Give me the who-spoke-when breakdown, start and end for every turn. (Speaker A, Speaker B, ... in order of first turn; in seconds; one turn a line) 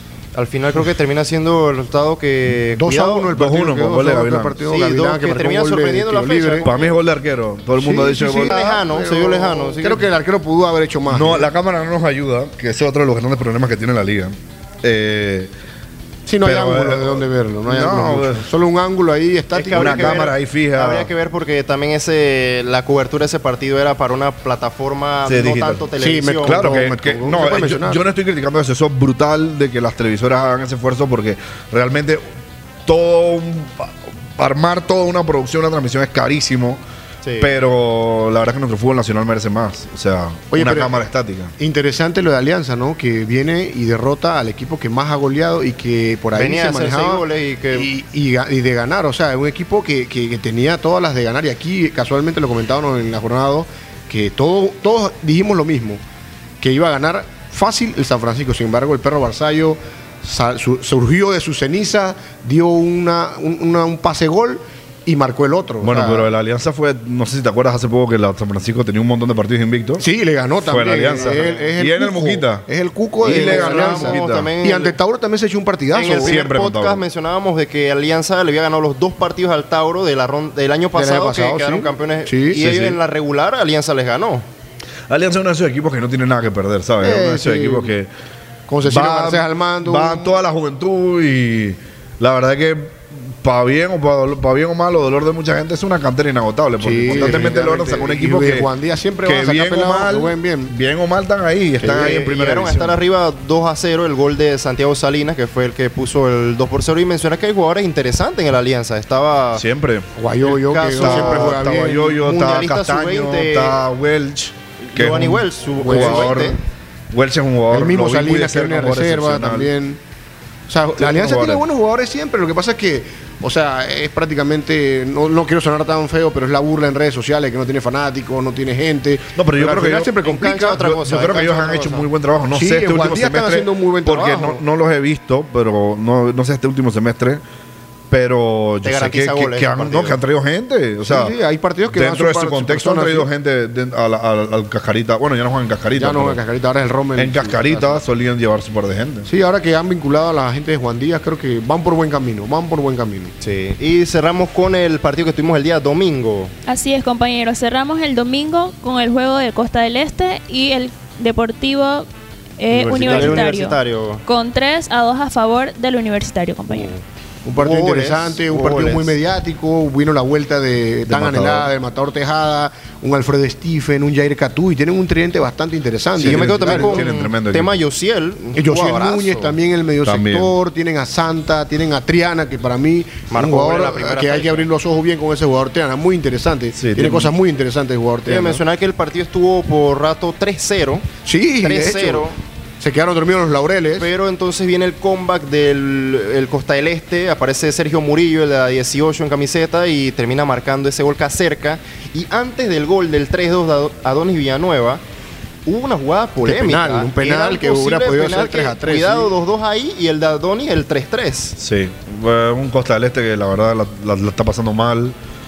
Speaker A: 0.3-3.3
Speaker B: 2.8-6.7
Speaker C: 3.3-4.6
Speaker A: 4.7-6.9
Speaker C: 6.6-8.6
Speaker B: 7.8-11.5
Speaker A: 8.4-10.1
Speaker C: 11.1-15.5
Speaker B: 16.3-20.3
Speaker C: 16.4-18.5
Speaker A: 19.5-26.7
Speaker C: 19.8-21.1
Speaker C: 25.3-25.9
Speaker B: 26.0-28.0
Speaker C: 26.4-32.3
Speaker C: 32.9-36.8
Speaker A: 37.2-37.5
Speaker C: 37.4-41.5
Speaker B: 40.5-40.9
Speaker B: 41.6-56.0
Speaker A: 46.4-47.9
Speaker B: 56.6-66.3
Speaker C: 65.8-70.0
Speaker B: 70.0-76.4
Speaker C: 70.6-72.7
Speaker A: 71.1-71.7
Speaker A: 73.2-75.0
Speaker C: 73.2-74.5
Speaker A: 75.9-84.5
Speaker C: 76.2-77.0
Speaker B: 81.0-82.6
Speaker C: 82.6-83.0
Speaker C: 85.1-88.1
Speaker B: 87.0-87.9
Speaker B: 88.7-90.4
Speaker C: 88.8-98.7
Speaker B: 96.8-100.7
Speaker A: 97.1-97.5
Speaker C: 99.2-103.0
Speaker A: 101.8-109.6
Speaker B: 101.8-102.2
Speaker C: 109.5-110.1
Speaker B: 110.2-112.4
Speaker A: 110.4-111.6
Speaker C: 110.9-116.6
Speaker A: 112.2-113.8
Speaker A: 114.8-116.6
Speaker B: 115.8-116.5
Speaker C: 117.1-119.7
Speaker B: 117.7-120.0
Speaker B: 120.7-130.8
Speaker C: 121.0-121.7
Speaker C: 129.3-137.4
Speaker A: 130.2-132.1
Speaker B: 132.5-134.6
Speaker C: 138.1-141.3
Speaker A: 138.8-140.2
Speaker B: 141.1-143.3
Speaker C: 141.9-146.4
Speaker B: 146.0-148.0
Speaker C: 147.2-149.3
Speaker B: 149.3-153.3
Speaker A: 153.4-156.5
Speaker D: 156.7-162.1
Speaker D: 162.6-166.9
Speaker A: 162.7-164.2
Speaker B: 162.9-163.4
Speaker B: 167.4-177.1
Speaker A: 167.6-169.1
Speaker C: 171.1-171.7
Speaker C: 176.2-177.8
Speaker A: 176.2-179.6
Speaker B: 178.6-188.6
Speaker C: 180.0-180.5
Speaker A: 183.3-184.7
Speaker C: 186.8-187.3
Speaker A: 188.3-191.1
Speaker B: 191.2-192.3
Speaker A: 191.6-192.4
Speaker B: 192.8-194.1
Speaker A: 194.0-205.0
Speaker A: 205.7-211.6
Speaker B: 206.4-209.3
Speaker C: 211.6-215.2